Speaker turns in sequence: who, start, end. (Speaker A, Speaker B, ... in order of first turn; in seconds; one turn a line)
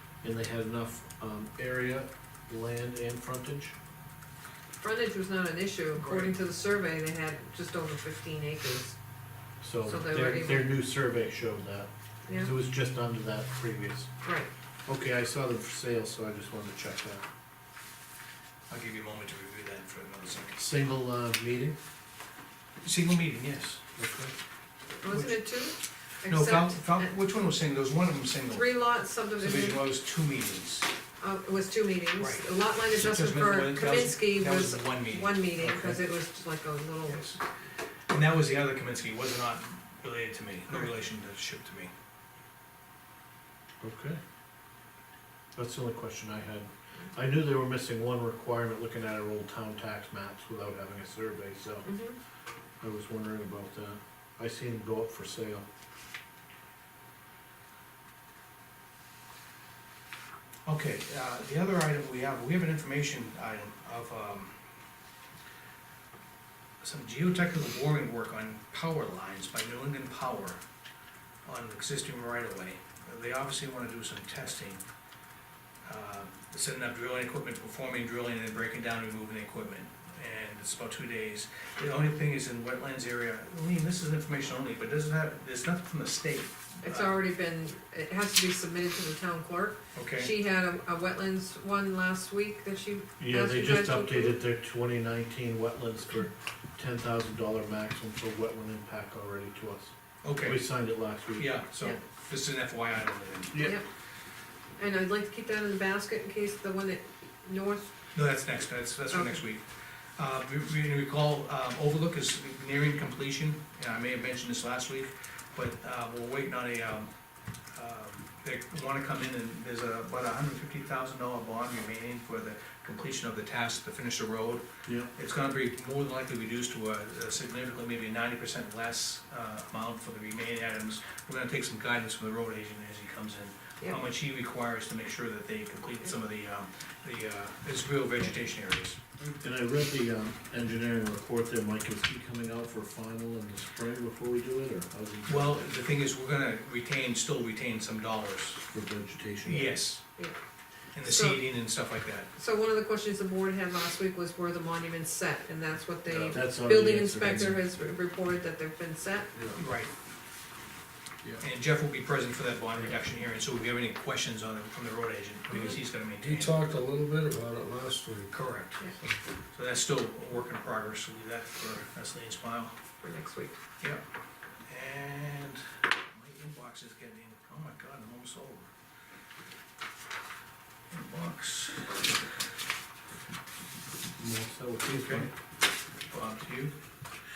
Speaker A: 0.2-3.8
Speaker B: 4.8-9.0
Speaker A: 9.6-14.1
Speaker B: 9.9-10.7
Speaker B: 14.2-14.5
Speaker A: 14.9-17.3
Speaker C: 18.7-20.6
Speaker A: 20.6-21.8
Speaker C: 22.8-23.8
Speaker A: 24.0-24.3
Speaker B: 25.0-27.1
Speaker C: 25.1-25.5
Speaker C: 26.3-28.8
Speaker B: 28.5-29.8
Speaker C: 29.4-30.9
Speaker B: 31.2-37.4
Speaker C: 32.2-35.4
Speaker A: 35.6-36.0
Speaker C: 37.1-37.4
Speaker C: 38.1-41.9
Speaker A: 43.8-44.2
Speaker A: 45.6-52.0
Speaker B: 51.9-52.2
Speaker A: 52.8-55.6
Speaker C: 60.7-64.6
Speaker C: 66.8-70.6
Speaker C: 71.5-74.8
Speaker C: 75.9-87.2
Speaker B: 86.8-94.4
Speaker C: 90.0-90.3
Speaker A: 93.2-101.7
Speaker C: 100.2-100.7
Speaker C: 101.4-103.7
Speaker A: 103.5-103.8
Speaker B: 104.8-107.9
Speaker C: 108.1-109.6
Speaker B: 109.1-109.4
Speaker C: 110.2-117.1
Speaker C: 117.7-139.0
Speaker A: 139.4-145.8
Speaker C: 145.3-148.6
Speaker A: 148.7-149.7
Speaker C: 149.5-150.1
Speaker C: 150.9-152.3
Speaker B: 151.0-151.4
Speaker B: 152.4-159.3
Speaker A: 156.1-157.6
Speaker C: 159.6-159.9
Speaker C: 161.4-166.6
Speaker B: 165.5-165.8
Speaker D: 166.2-168.3
Speaker C: 168.3-168.8
Speaker C: 169.5-172.8
Speaker B: 173.0-173.6
Speaker C: 174.7-178.7
Speaker C: 180.9-182.0
Speaker A: 184.2-185.3
Speaker C: 184.9-185.3
Speaker C: 186.1-186.8